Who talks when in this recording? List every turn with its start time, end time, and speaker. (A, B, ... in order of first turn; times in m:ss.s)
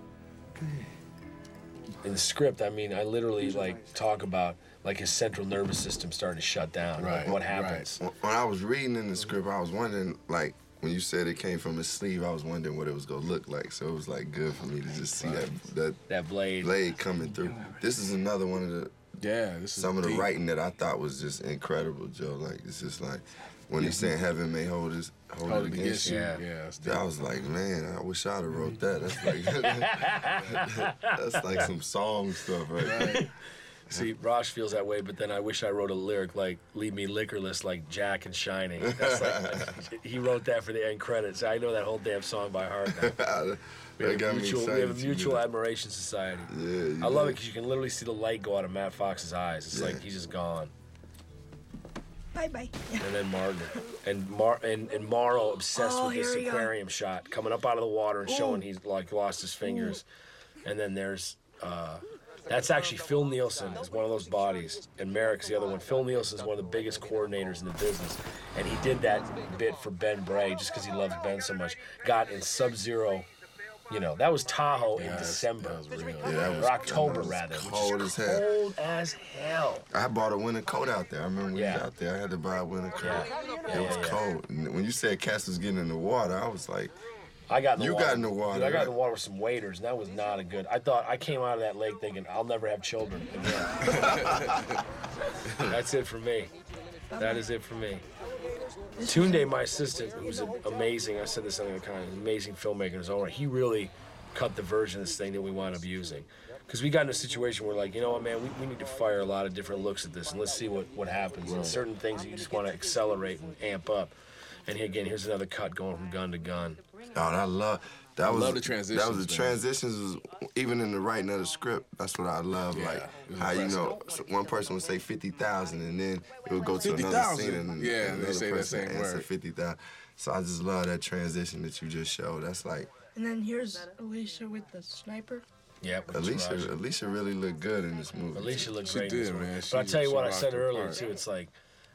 0:02.0-0:08.0 A
0:07.0-0:07.9 B
0:08.0-0:16.0 C
0:15.1-0:15.5 B
0:16.1-0:16.8 A
0:16.6-0:19.2 C
0:19.2-0:20.3 B
0:19.8-0:33.3 C
0:23.8-0:24.1 B
0:25.4-0:27.1 B
0:26.0-0:26.4 A
0:29.2-0:31.6 A
0:32.8-0:33.3 B
0:33.9-0:43.2 A
0:38.8-0:39.8 C
0:42.9-0:45.5 C
0:44.0-0:50.7 A
0:46.5-0:47.4 C
0:49.7-0:50.0 C
0:52.3-0:53.1 D
0:53.0-1:00.0 A
0:55.7-0:56.7 D
0:58.3-0:58.6 D
0:59.6-1:00.0 D
1:00.6-1:13.3 A
1:13.9-1:19.9 A
1:14.9-1:17.2 B
1:16.2-1:18.5 C
1:19.9-1:26.9 C
1:21.5-1:21.9 A
1:23.0-1:24.3 A
1:27.5-1:34.3 A
1:27.8-1:29.0 C
1:33.8-1:34.8 B
1:35.6-1:36.5 A
1:37.1-1:37.5 D
1:37.2-1:38.0 A
1:39.0-1:39.5 D
1:39.1-1:54.1 A
1:51.4-1:51.8 B
1:54.6-1:56.8 A
1:57.1-2:12.9 C
1:58.2-1:59.6 B
2:02.7-2:04.0 B
2:06.8-2:09.3 B
2:13.2-2:15.4 D
2:15.8-2:16.8 A
2:16.1-2:18.8 C
2:18.3-2:21.5 A
2:18.8-2:21.0 B